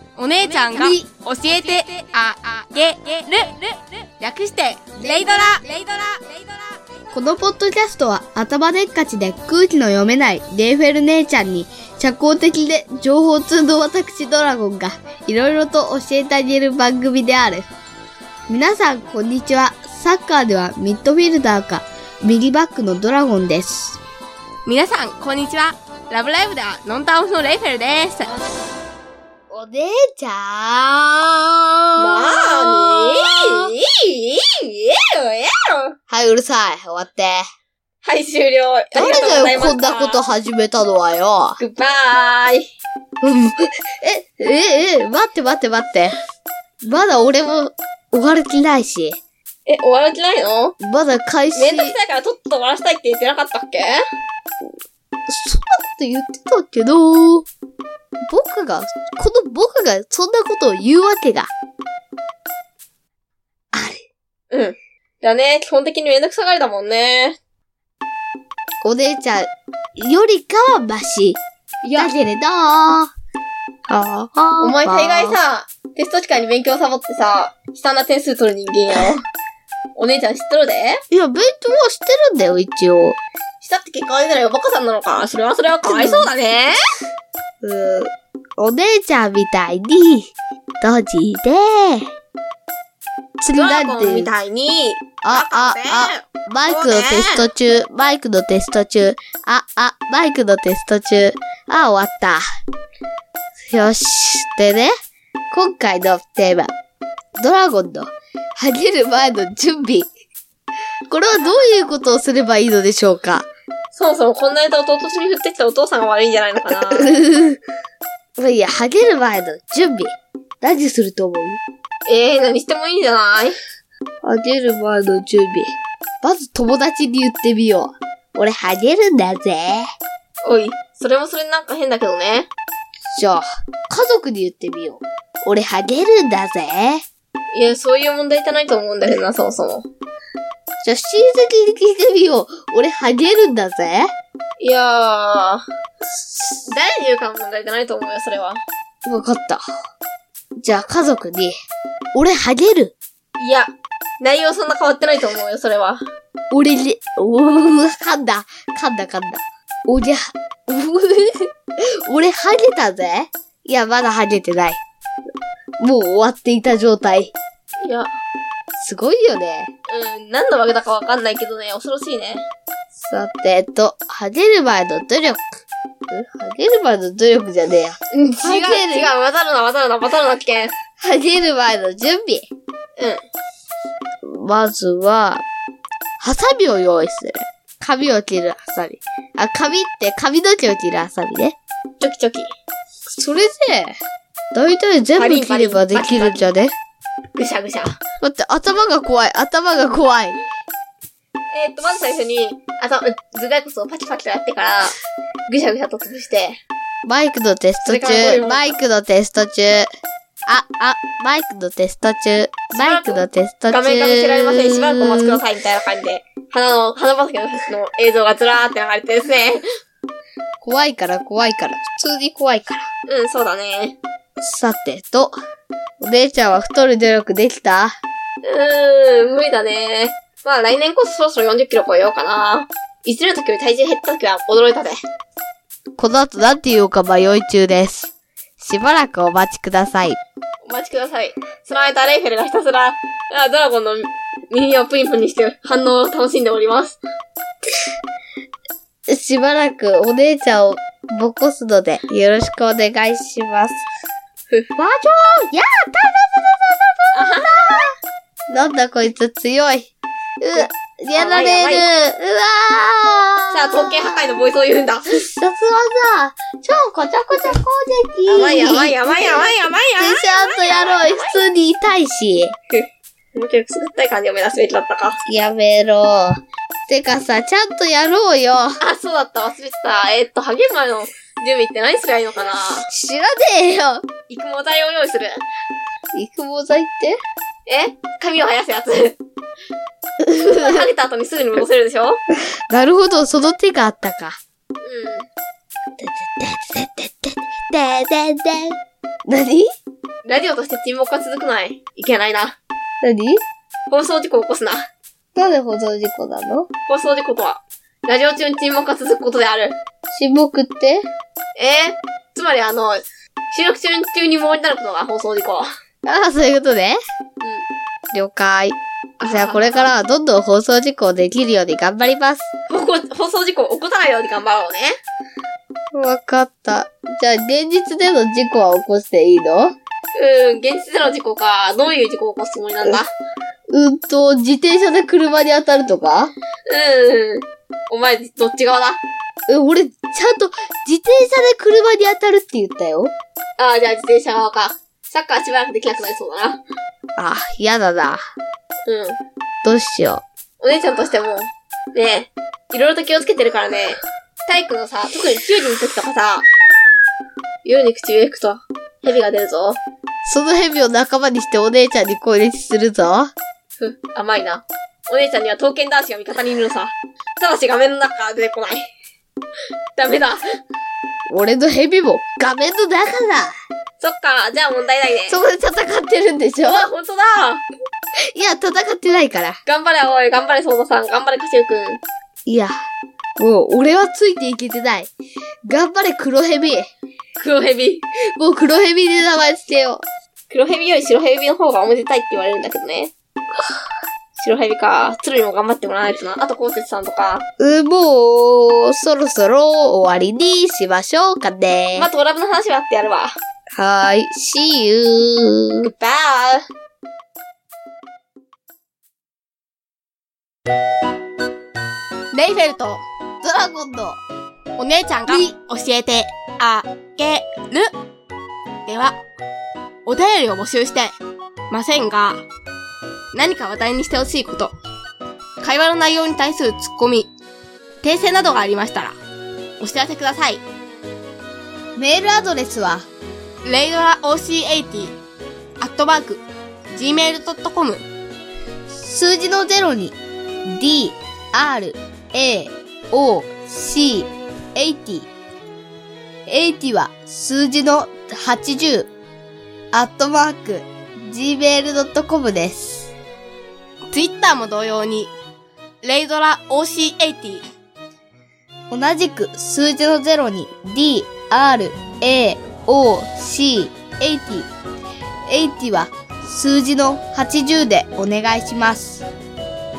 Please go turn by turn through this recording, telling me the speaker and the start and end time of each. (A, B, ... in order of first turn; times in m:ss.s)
0:00.2-0:03.5 A
0:00.4-0:01.1 B
0:00.5-0:00.9 C
0:01.7-0:02.6 C
0:04.2-0:06.5 A
0:05.0-0:05.4 C
0:05.0-0:05.6 B
0:07.1-0:17.7 B
0:18.5-0:24.0 B
0:24.7-0:28.3 A
0:29.5-0:33.7 B
0:32.0-0:35.9 A
0:36.1-0:37.4 B
0:38.0-0:40.2 A
0:38.9-0:41.6 B
0:41.6-0:42.6 A
0:43.2-0:46.2 B
0:46.8-0:49.2 B
0:49.7-0:50.8 A
0:50.8-0:52.0 B
0:51.5-0:54.0 A
0:55.3-0:57.5 B
0:58.3-1:01.5 B
1:03.7-1:04.1 B
1:04.5-1:07.4 A
1:08.8-1:11.4 B
1:11.8-1:12.1 A
1:12.0-1:13.1 B
1:13.9-1:15.4 B
1:14.6-1:19.2 A
1:20.0-1:21.0 A
1:21.1-1:23.2 B
1:23.6-1:26.8 A
1:25.8-1:26.3 B
1:27.6-1:32.1 B
1:33.4-1:34.3 B
1:33.5-1:37.5 A
1:35.2-1:42.4 B
1:43.7-1:44.9 B
1:45.5-1:46.7 B
1:47.4-1:50.1 B
1:51.1-1:53.5 B
1:53.9-1:57.2 A
1:56.9-1:57.6 B
1:58.4-2:01.6 B
2:02.1-2:03.6 A
2:04.2-2:09.8 B
2:10.4-2:12.5 A
2:13.1-2:17.0 B
2:17.5-2:19.9 A
2:20.8-2:24.1 B
2:24.6-2:25.6 A
2:26.6-2:28.6 A
2:29.0-2:29.6 B
2:30.6-2:31.6 B
2:32.1-2:33.0 B
2:33.4-2:36.0 A
2:36.5-2:41.4 B
2:42.1-2:44.8 B
2:45.8-2:47.4 B
2:47.8-2:48.1 A
2:48.8-2:49.7 B
2:49.9-2:52.4 A
2:53.0-2:55.4 B
2:56.1-2:59.1 B
2:58.1-3:00.7 A
3:01.0-3:02.5 B
3:04.2-3:05.4 B
3:06.2-3:11.6 B
3:12.0-3:12.5 A
3:13.1-3:14.0 B
3:14.5-3:16.7 B
3:15.2-3:16.5 A
3:17.4-3:17.9 A
3:18.2-3:20.4 B
3:21.5-3:25.0 A
3:25.5-3:26.6 A
3:27.0-3:29.9 B
3:27.8-3:28.8 A
3:30.5-3:35.4 B
3:32.7-3:39.6 A
3:40.6-3:42.8 B
3:43.1-3:44.0 A
3:44.4-3:45.4 B
3:46.0-3:48.0 B
3:48.4-3:55.0 A
3:56.0-4:00.2 B
4:00.6-4:07.0 A
4:09.1-4:13.8 B
4:14.8-4:17.9 B
4:17.1-4:17.9 A
4:18.5-4:24.4 B
4:20.5-4:21.9 A
4:23.5-4:25.2 A
4:25.1-4:32.5 B
4:28.3-4:31.4 A
4:32.7-4:35.2 A
4:35.3-4:38.8 B
4:38.8-4:42.9 A
4:42.9-4:44.0 B
4:44.3-4:45.4 A
4:46.1-4:47.2 B
4:47.7-4:49.2 A
4:50.2-4:50.8 B
4:50.4-4:52.2 A
4:52.7-4:54.4 B
4:54.8-4:55.3 A
4:56.0-4:58.8 B
4:59.3-4:59.7 B
5:00.2-5:02.6 A
5:03.0-5:03.4 B
5:03.9-5:04.9 A
5:05.4-5:06.7 B
5:06.9-5:09.8 A
5:10.1-5:11.0 B
5:11.6-5:15.7 A
5:16.1-5:17.0 B
5:17.4-5:17.7 A
5:18.1-5:22.5 B
5:19.2-5:19.9 A
5:22.7-5:25.0 A
5:25.9-5:29.7 B
5:30.1-5:33.1 A
5:33.7-5:36.3 B
5:36.7-5:39.0 A
5:39.5-5:43.1 B
5:43.6-5:46.6 A
5:47.2-5:48.2 B
5:48.9-5:49.2 A
5:49.6-5:50.2 B
5:50.6-5:56.5 A
5:57.6-5:59.8 A
6:00.2-6:03.3 B
6:03.8-6:08.9 A
6:10.0-6:10.4 A
6:11.3-6:13.5 B
6:14.0-6:15.4 A
6:15.3-6:16.9 B
6:16.7-6:17.6 A
6:18.4-6:19.6 B
6:19.7-6:22.0 A
6:22.5-6:22.7 B
6:23.4-6:25.1 B
6:25.7-6:26.9 B
6:27.4-6:28.0 A
6:28.4-6:30.0 B
6:30.5-6:33.1 A
6:34.4-6:37.4 A
6:37.6-6:42.1 B
6:42.0-6:43.4 A
6:43.8-6:45.9 B
6:45.8-6:46.6 A
6:52.3-6:53.0 A
6:53.4-6:54.2 B
6:54.8-6:57.9 A
6:55.3-6:55.5 B
6:55.3-6:55.7 C
6:57.1-6:57.7 C
6:58.9-6:59.2 A
7:00.1-7:01.1 A
7:01.7-7:02.4 A
7:03.3-7:04.7 A
7:05.6-7:07.3 A
7:08.0-7:09.2 A
7:09.8-7:10.6 A
7:12.0-7:13.1 B
7:13.6-7:15.1 C
7:15.8-7:16.4 C
7:16.9-7:18.0 C
7:18.9-7:25.3 B
7:26.5-7:29.1 B
7:29.9-7:33.1 B
7:34.1-7:35.3 C
7:36.0-7:37.6 C
7:37.3-7:37.6 A
7:38.9-7:44.7 B
7:45.5-7:49.2 B